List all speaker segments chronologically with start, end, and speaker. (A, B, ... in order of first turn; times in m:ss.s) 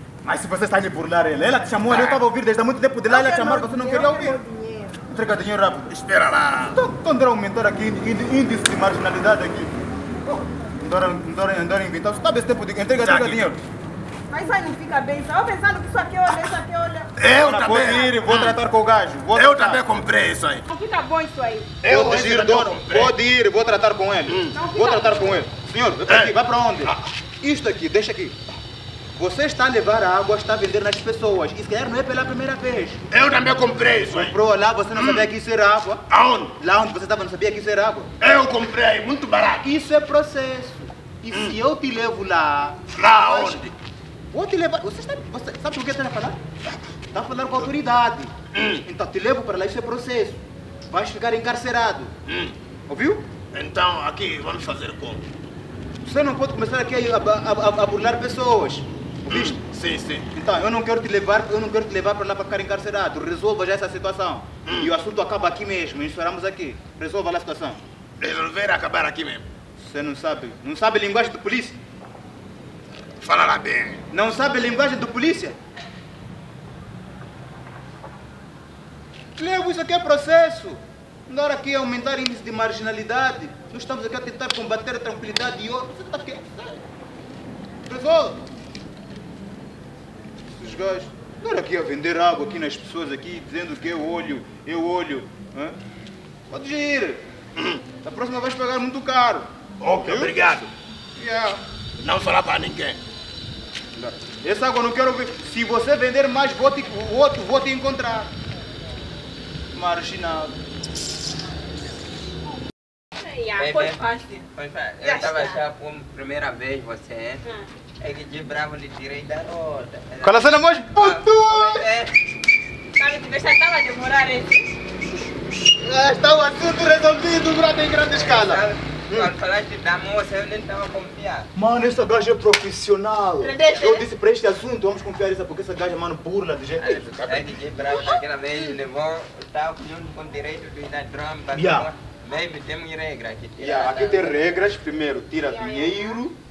0:00.2-0:04.4 A
0:01.9-0:02.2 B
0:03.0-0:05.0 C
0:05.1-0:05.9 A
0:05.9-0:06.8 B
0:06.7-0:09.8 A
0:10.8-0:13.6 A
0:13.0-0:13.4 B
0:14.3-0:17.1 C
0:17.2-0:18.6 B
0:17.4-0:19.8 A
0:17.8-0:18.1 C
0:19.3-0:20.7 B
0:20.7-0:21.7 C
0:21.8-0:23.2 B
0:21.8-0:28.4 A
0:24.3-0:24.6 B
0:24.5-0:25.5 C
0:26.1-0:27.0 B
0:29.2-0:33.0 A
0:33.1-0:34.4 B
0:34.1-0:36.0 A
0:35.0-0:35.3 B
0:36.1-0:36.5 B
0:36.5-0:38.1 A
0:38.2-0:39.7 B
0:39.6-0:43.6 A
0:41.3-0:41.6 B
0:42.9-0:43.7 B
0:44.3-0:46.4 A
0:47.1-0:48.3 A
0:48.5-0:48.9 B
0:48.9-0:52.1 A
0:52.3-0:52.6 B
0:52.9-0:53.2 A
0:53.5-0:55.2 B
0:56.0-0:59.6 A
0:59.3-1:00.3 B
1:00.3-1:07.8 A
1:04.6-1:04.9 B
1:08.2-1:09.4 B
1:09.8-1:11.8 A
1:13.2-1:14.0 B
1:14.1-1:15.6 A
1:19.4-1:26.8 A
1:27.9-1:28.4 A
1:30.6-1:35.8 A
1:36.5-1:37.2 A
1:37.6-1:37.8 B
1:38.0-1:40.3 A
1:39.8-1:40.7 B
1:41.2-1:41.6 A
1:42.0-1:43.0 B
1:44.0-1:48.3 A
1:49.7-1:50.5 A
1:53.2-1:54.5 C
1:53.6-1:57.4 D
1:55.0-1:55.6 C
1:57.4-1:57.7 C
1:58.0-2:02.1 D
2:00.2-2:01.9 A
2:03.0-2:04.8 C
2:05.8-2:09.3 A
2:08.1-2:11.5 D
2:11.6-2:18.1 A
2:13.4-2:14.1 C
2:16.8-2:24.4 D
2:21.5-2:21.9 A
2:23.6-2:26.4 A
2:25.4-2:26.2 C